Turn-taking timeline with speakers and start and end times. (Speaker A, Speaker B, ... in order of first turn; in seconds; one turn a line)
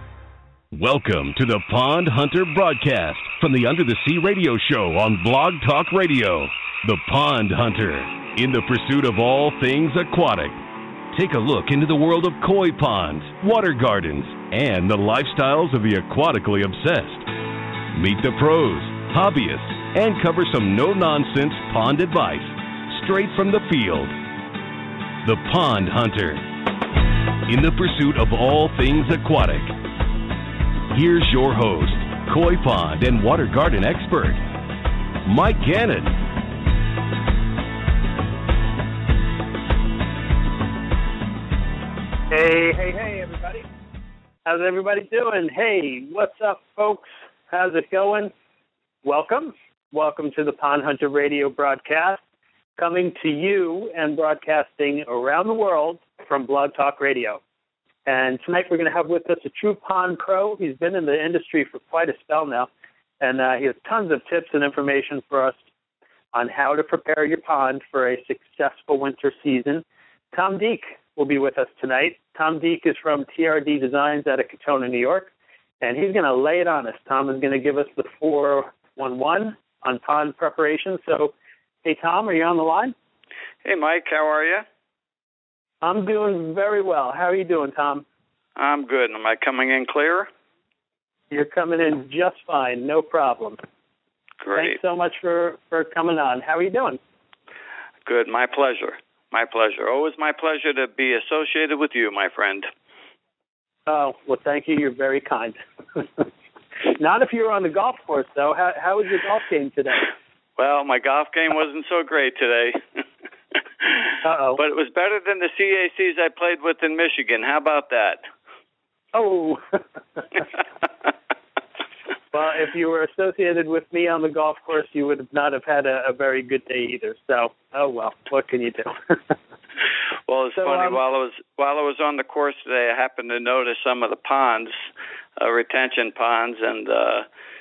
Speaker A: 0.7-17.3
Speaker A: 17.9-24.1
Speaker A: 25.2-26.5
Speaker A: 27.4-29.8
Speaker A: 30.9-34.4
Speaker A: 35.2-36.2
Speaker B: 42.3-43.6
Speaker B: 44.5-48.3
Speaker B: 49.0-52.2
Speaker B: 52.8-57.4
Speaker B: 58.0-62.7
Speaker B: 63.2-65.6
Speaker B: 66.3-81.3
Speaker B: 81.8-82.9
Speaker C: 83.6-84.7
Speaker B: 85.8-88.0
Speaker C: 88.5-90.3
Speaker B: 91.3-93.6
Speaker C: 94.4-94.8
Speaker B: 94.5-97.0
Speaker C: 98.0-102.7
Speaker B: 103.9-106.2
Speaker B: 107.0-110.1
Speaker C: 110.6-112.8
Speaker C: 113.5-118.2
Speaker B: 114.2-114.6
Speaker B: 119.1-120.2
Speaker B: 122.3-129.2
Speaker C: 130.3-134.7
Speaker B: 130.6-131.0
Speaker C: 135.4-137.2